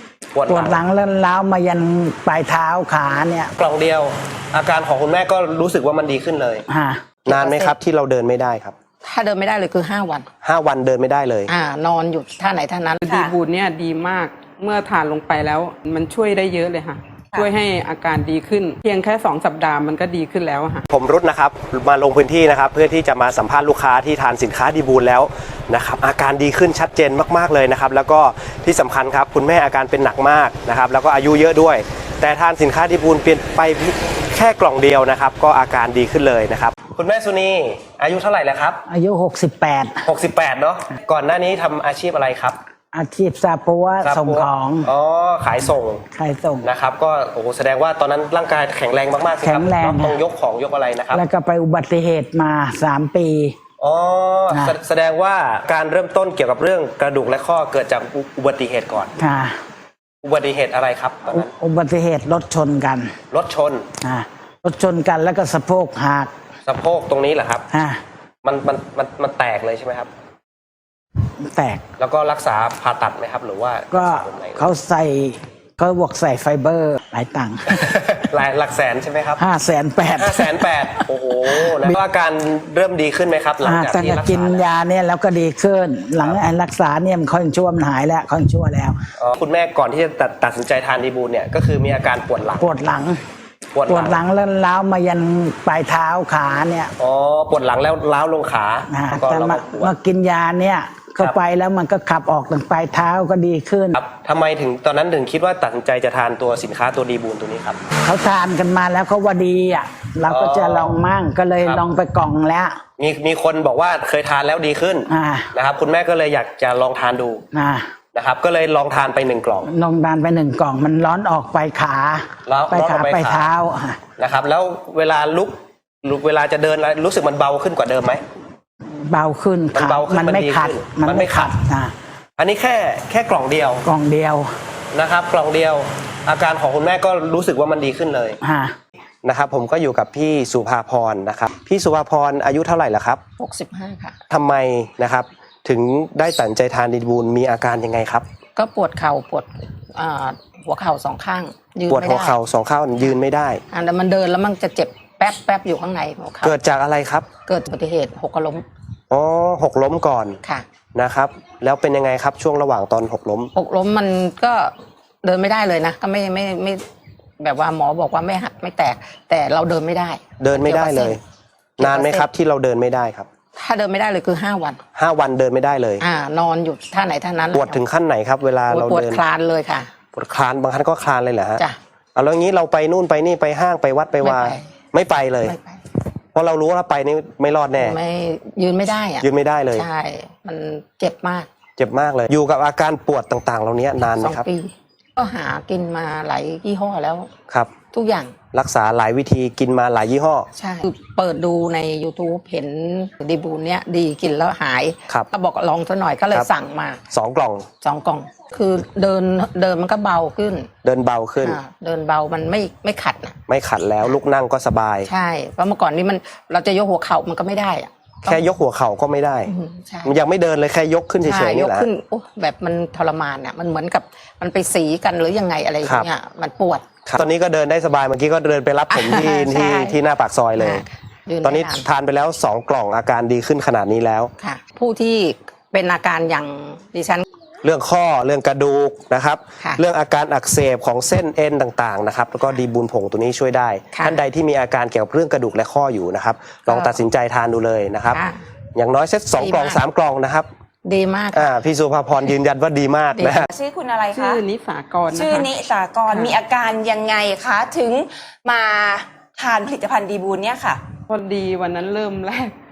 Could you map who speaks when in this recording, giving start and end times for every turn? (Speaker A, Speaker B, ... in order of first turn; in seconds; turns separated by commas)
Speaker A: 0.3-0.8, Speaker B: 0.5-3.5, Speaker A: 3.6-6.6, Speaker B: 6.7-7.0, Speaker A: 7.2-8.7, Speaker C: 7.3-7.8, Speaker C: 9.0-10.3, Speaker A: 10.4-11.5, Speaker C: 11.5-13.1, Speaker D: 13.0-20.9, Speaker E: 13.1-13.3, Speaker A: 20.9-38.8, Speaker B: 38.9-40.1, Speaker A: 40.0-42.6, Speaker B: 42.9-44.9, Speaker A: 44.0-46.0, Speaker B: 46.1-46.7, Speaker A: 46.6-51.2, Speaker B: 49.4-50.1, Speaker B: 51.1-53.5, Speaker A: 53.8-59.1, Speaker B: 54.5-54.7, Speaker B: 59.2-59.5, Speaker A: 60.2-61.5, Speaker B: 61.3-63.1, Speaker A: 63.3-63.8, Speaker B: 64.0-66.3, Speaker A: 66.7-67.6, Speaker B: 67.7-68.0, Speaker A: 68.4-70.1, Speaker B: 71.4-71.8, Speaker A: 72.0-74.7, Speaker B: 73.9-77.8, Speaker A: 77.7-79.4, Speaker B: 79.4-82.0, Speaker A: 80.2-84.7, Speaker B: 83.6-89.0, Speaker A: 89.2-92.7, Speaker B: 92.6-93.2, Speaker A: 93.7-94.2, Speaker B: 93.9-96.9, Speaker A: 97.0-99.9, Speaker B: 98.9-104.0, Speaker A: 103.9-107.8, Speaker B: 108.0-112.8, Speaker A: 110.3-111.0, Speaker A: 113.0-117.4, Speaker B: 115.1-115.5, Speaker B: 117.5-117.8, Speaker A: 118.1-119.7, Speaker B: 119.6-124.0, Speaker A: 122.5-123.5, Speaker A: 124.2-128.2, Speaker B: 128.9-131.9, Speaker A: 129.7-131.5, Speaker A: 132.4-133.8, Speaker B: 133.8-134.5, Speaker A: 134.9-138.4, Speaker B: 138.4-138.7, Speaker A: 139.2-143.2, Speaker C: 143.4-144.2, Speaker A: 144.3-148.2, Speaker C: 148.6-152.4, Speaker A: 151.9-153.6, Speaker C: 153.7-156.6, Speaker A: 156.4-157.3, Speaker C: 157.5-158.6, Speaker A: 159.1-160.4, Speaker A: 160.9-163.5, Speaker C: 163.5-164.7, Speaker C: 165.2-166.8, Speaker C: 167.4-171.2, Speaker A: 170.4-171.2, Speaker A: 171.8-173.3, Speaker C: 171.8-172.3, Speaker C: 173.6-174.8, Speaker A: 174.9-176.0, Speaker C: 176.0-177.8, Speaker A: 177.5-179.2, Speaker C: 178.7-179.9, Speaker A: 180.1-181.6, Speaker A: 182.1-185.5, Speaker C: 184.2-184.6, Speaker C: 185.4-185.8, Speaker A: 186.3-188.0, Speaker C: 187.7-191.5, Speaker A: 189.2-189.8, Speaker A: 191.8-194.4, Speaker C: 194.1-197.3, Speaker A: 197.5-197.8, Speaker C: 197.9-198.4, Speaker A: 198.5-200.5, Speaker C: 200.6-207.0, Speaker A: 207.1-207.7, Speaker C: 207.8-210.7, Speaker A: 210.8-211.6, Speaker C: 211.4-213.4, Speaker A: 213.5-215.1, Speaker C: 215.1-218.5, Speaker A: 218.3-219.5, Speaker C: 219.4-220.2, Speaker A: 220.0-221.9, Speaker C: 221.2-227.2, Speaker A: 225.8-226.1, Speaker A: 227.0-230.8, Speaker C: 228.9-230.0, Speaker C: 230.6-231.9, Speaker A: 231.4-234.3, Speaker C: 234.4-237.2, Speaker A: 237.6-248.2, Speaker C: 243.9-244.2, Speaker C: 246.7-247.0, Speaker C: 248.1-248.4, Speaker A: 248.7-250.5, Speaker C: 249.4-249.8, Speaker C: 250.8-251.6, Speaker A: 251.3-253.5, Speaker C: 253.1-253.4, Speaker E: 253.5-254.4, Speaker D: 254.1-255.5, Speaker E: 255.1-260.8, Speaker D: 256.1-256.4, Speaker D: 261.1-262.5